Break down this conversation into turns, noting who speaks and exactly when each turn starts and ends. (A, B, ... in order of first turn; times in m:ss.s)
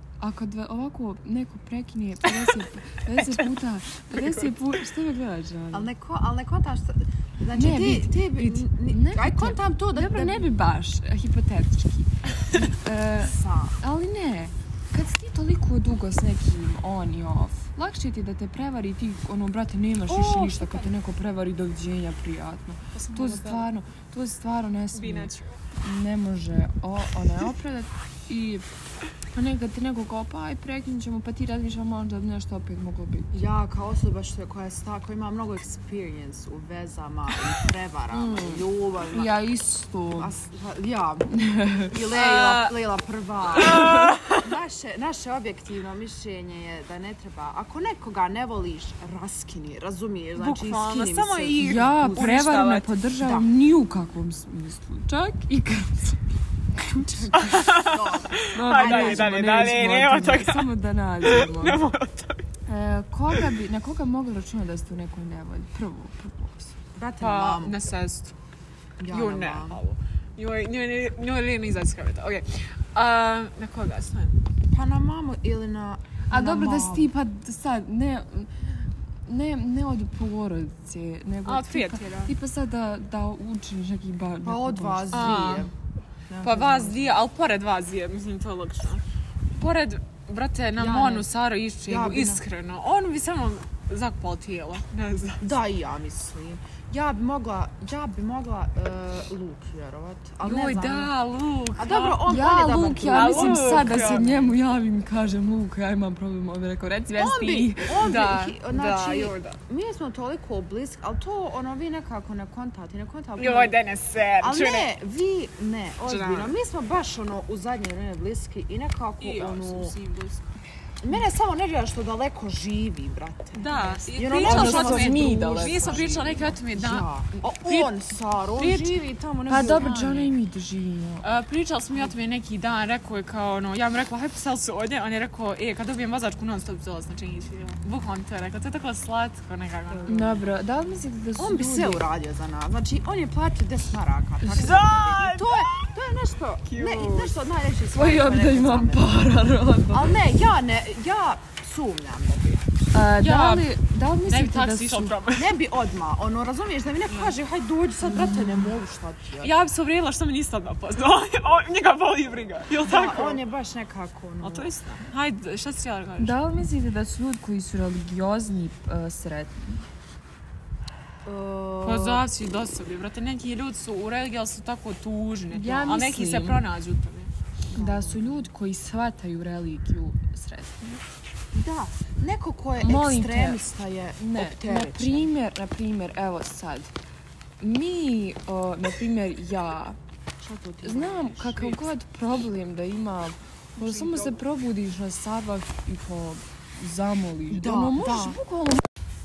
0:00.2-0:05.9 A
0:04.1-0:04.5 B
0:05.7-0:10.5 C
0:07.5-0:28.7 A
0:13.2-0:13.8 C
0:20.1-0:20.9 B
0:22.9-0:23.7 B
0:24.9-0:25.6 B
0:29.3-0:33.3 A
0:33.3-0:39.3 C
0:38.1-0:40.3 A
0:40.2-0:41.3 C
0:41.3-0:41.9 A
0:41.8-0:52.3 C
0:42.1-0:42.8 B
0:43.5-0:44.4 B
0:50.4-0:52.9 B
0:51.6-0:56.2 A
0:53.2-0:53.5 C
0:56.8-0:57.3 A
0:56.9-0:59.5 C
0:57.3-1:02.4 B
0:58.5-1:01.8 A
1:02.7-1:06.7 A
1:06.9-1:07.8 C
1:07.2-1:08.3 B
1:09.0-1:09.8 C
1:09.1-1:14.4 B
1:14.7-1:17.1 C
1:16.3-1:25.4 A
1:21.4-1:22.3 B
1:24.4-1:25.7 C
1:25.1-1:25.7 B
1:26.3-1:27.2 C
1:26.4-1:29.0 B
1:29.5-1:35.4 B
1:30.8-1:31.3 C
1:31.8-1:32.4 C
1:35.4-1:41.1 C
1:40.4-1:42.2 B
1:41.8-1:44.5 C
1:42.3-1:48.0 A
1:43.1-1:44.5 B
1:47.1-1:53.7 C
1:48.0-1:49.6 B
1:53.4-1:54.9 B
1:54.4-1:59.9 C
1:56.0-1:56.5 B
1:59.2-2:00.5 B
2:01.0-2:10.0 C
2:03.5-2:08.0 B
2:04.4-2:06.1 A
2:08.5-2:09.0 B
2:09.5-2:11.2 A
2:09.5-2:10.3 B
2:11.2-2:20.1 B
2:19.9-2:20.4 C
2:20.1-2:22.0 A
2:21.4-2:29.1 C
2:24.4-2:24.8 A
2:24.5-2:25.8 B
2:26.7-2:27.4 B
2:27.9-2:30.2 A
2:29.9-2:32.7 C
2:32.9-2:35.2 A
2:33.2-2:33.6 B
2:34.2-2:35.5 B
2:35.3-2:39.5 C
2:37.1-2:37.4 B
2:38.1-2:38.6 A
2:39.4-2:43.4 B
2:42.8-2:44.7 C
2:44.4-2:46.4 B
2:46.2-2:49.9 A
2:51.2-2:52.2 C
2:51.8-2:57.3 B
2:55.5-2:56.6 A
2:57.7-2:58.5 C
2:57.7-3:01.0 A
3:01.5-3:05.3 C
3:02.8-3:03.6 A
3:04.2-3:06.9 A
3:07.6-3:10.0 A
3:10.4-3:11.8 C
3:10.8-3:18.8 A
3:13.9-3:14.2 C
3:17.5-3:18.4 C